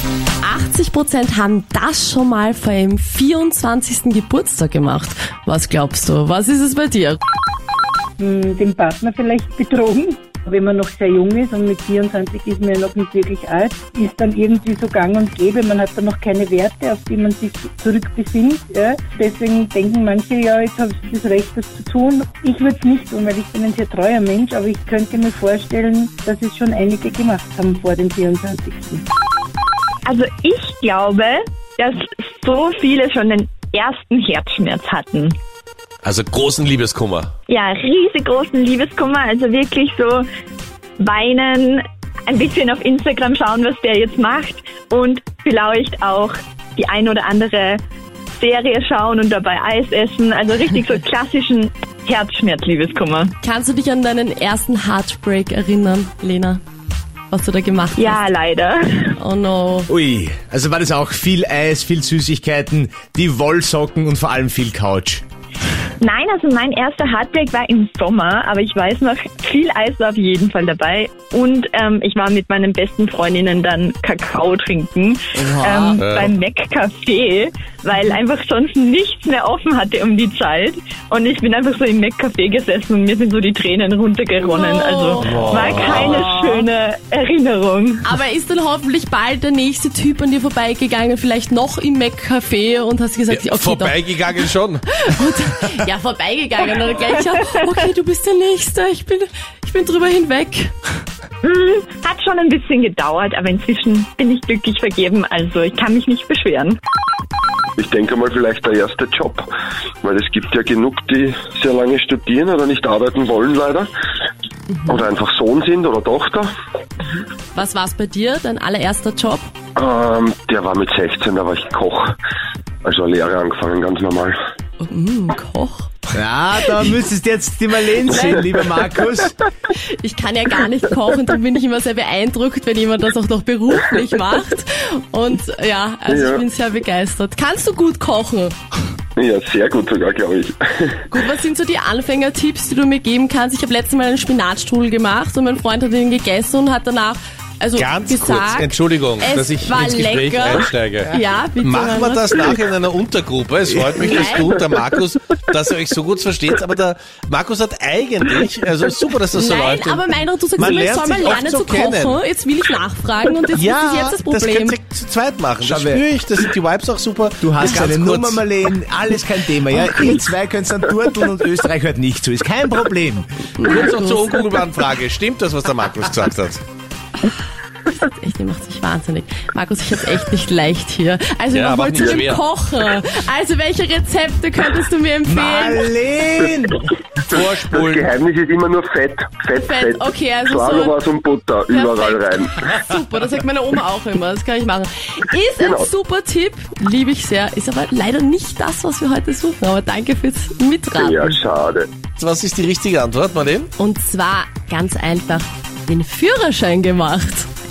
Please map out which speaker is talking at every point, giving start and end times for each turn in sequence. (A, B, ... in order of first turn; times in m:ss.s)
0:00.4-0:07.2 A
0:08.2-0:29.0 B
0:30.1-0:35.4 C
0:36.0-0:37.3 D
0:37.5-0:40.3 C
0:41.0-0:47.8 C
0:48.3-0:53.3 C
0:53.4-0:56.6 A
0:57.3-0:58.2 A
0:58.0-0:59.2 C
0:59.2-0:59.9 A
0:59.9-1:05.2 E
1:06.0-1:28.1 C
1:16.0-1:16.3 D
1:24.4-1:26.6 A
1:25.3-1:26.3 D
1:28.0-1:34.4 A
1:33.3-1:34.8 D
1:35.0-1:40.7 A
1:41.4-1:46.8 C
1:47.8-1:49.5 F
1:50.0-1:53.9 F
1:54.8-1:56.5 F
1:57.5-1:59.5 A
1:59.8-2:02.2 F
2:02.8-2:04.4 F
2:04.8-2:05.9 A
2:06.1-2:09.4 E
2:08.1-2:08.4 A
2:10.0-2:18.6 A
2:16.1-2:16.4 F
2:19.2-2:21.0 F
2:21.1-2:32.6 A
2:27.8-2:40.0 D
2:34.0-2:34.5 A
2:39.3-2:44.8 A
2:40.6-2:42.2 D
2:43.6-2:48.4 D
2:45.6-2:46.1 E
2:47.4-2:53.3 E
2:53.6-2:54.4 A
2:53.6-2:56.6 D
2:58.0-3:05.9 A
3:01.5-3:02.4 D
3:02.0-3:02.3 F
3:05.3-3:06.9 E
3:07.3-3:12.6 F
3:07.3-3:08.1 D
3:09.6-3:11.0 A
3:11.7-3:21.4 A
3:15.6-3:15.9 F
3:21.0-3:21.9 F
3:22.2-3:23.7 D
3:23.8-3:27.5 A